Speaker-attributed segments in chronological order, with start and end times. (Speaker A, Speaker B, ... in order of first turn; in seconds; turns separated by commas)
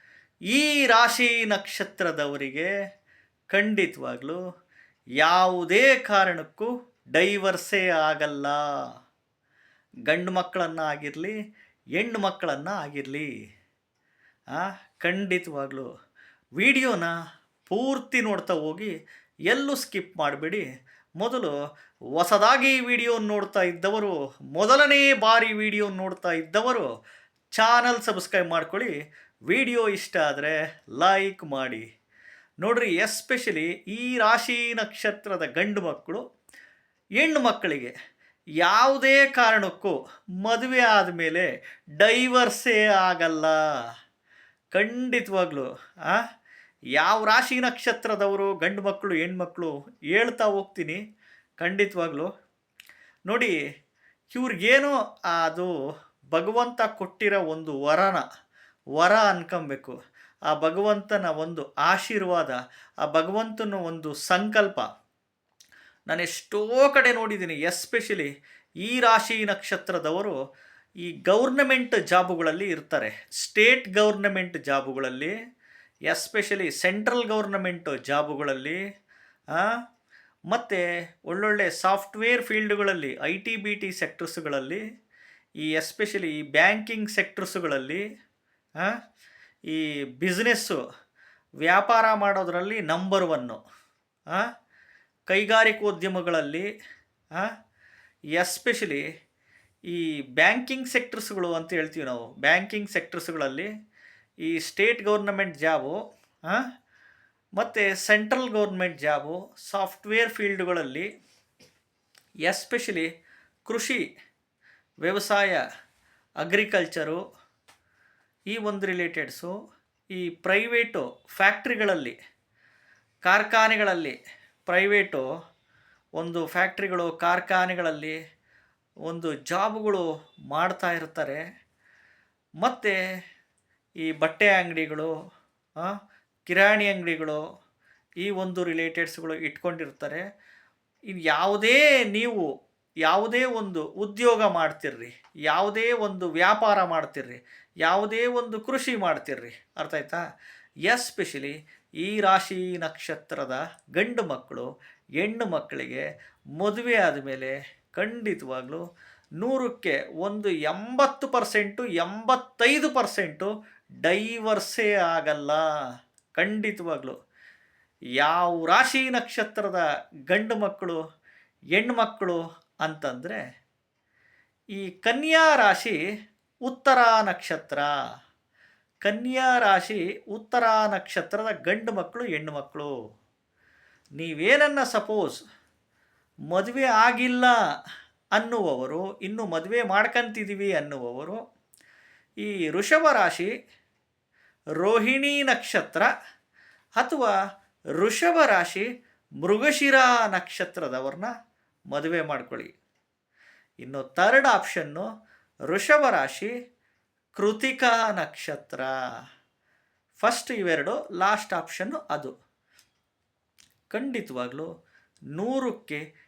Speaker A: 0.5-2.7, Speaker A: 3.5-4.4, Speaker A: 5.2-8.6, Speaker A: 10.1-11.3, Speaker A: 11.9-13.3, Speaker A: 14.5-15.9, Speaker A: 16.6-17.1, Speaker A: 17.7-18.9, Speaker A: 19.5-20.6, Speaker A: 21.2-21.5, Speaker A: 22.1-26.9, Speaker A: 27.5-28.9, Speaker A: 29.5-31.8, Speaker A: 32.6-36.2, Speaker A: 37.2-37.9, Speaker A: 38.6-41.5, Speaker A: 42.0-43.6, Speaker A: 44.7-46.2, Speaker A: 47.0-51.0, Speaker A: 51.6-52.3, Speaker A: 53.3-53.5, Speaker A: 54.3-55.7, Speaker A: 56.3-58.2, Speaker A: 59.0-59.9, Speaker A: 60.5-64.8, Speaker A: 66.1-68.3, Speaker A: 68.8-70.3, Speaker A: 71.0-75.3, Speaker A: 76.1-78.8, Speaker A: 80.5-84.8, Speaker A: 85.6-88.0, Speaker A: 89.7-90.8, Speaker A: 91.6-93.6, Speaker A: 95.3-96.7, Speaker A: 98.3-99.0, Speaker A: 99.9-103.7, Speaker A: 104.4-106.6, Speaker A: 107.6-111.1, Speaker A: 112.4-113.1, Speaker A: 113.6-114.0, Speaker A: 115.0-115.6, Speaker A: 116.4-117.2, Speaker A: 118.5-119.5, Speaker A: 120.1-122.2, Speaker A: 123.2-125.2, Speaker A: 126.2-128.2, Speaker A: 129.1-131.4, Speaker A: 132.6-133.0, Speaker A: 134.0-135.1, Speaker A: 136.5-137.4, Speaker A: 138.2-140.2, Speaker A: 141.1-142.4, Speaker A: 143.0-150.2, Speaker A: 150.9-154.7, Speaker A: 155.2-156.0, Speaker A: 156.6-158.8, Speaker A: 159.4-163.5, Speaker A: 164.0-165.6, Speaker A: 166.3-167.2, Speaker A: 168.2-171.0, Speaker A: 171.8-173.4, Speaker A: 174.8-176.0, Speaker A: 176.6-177.9, Speaker A: 179.0-182.9, Speaker A: 184.2-185.4, Speaker A: 186.5-187.5, Speaker A: 188.3-191.4, Speaker A: 192.4-193.5, Speaker A: 194.8-196.1, Speaker A: 197.0-197.3, Speaker A: 198.0-198.8, Speaker A: 199.4-201.3, Speaker A: 201.9-202.7, Speaker A: 203.8-205.1, Speaker A: 205.7-206.5, Speaker A: 207.4-208.9, Speaker A: 210.2-212.3, Speaker A: 213.9-214.7, Speaker A: 215.3-216.0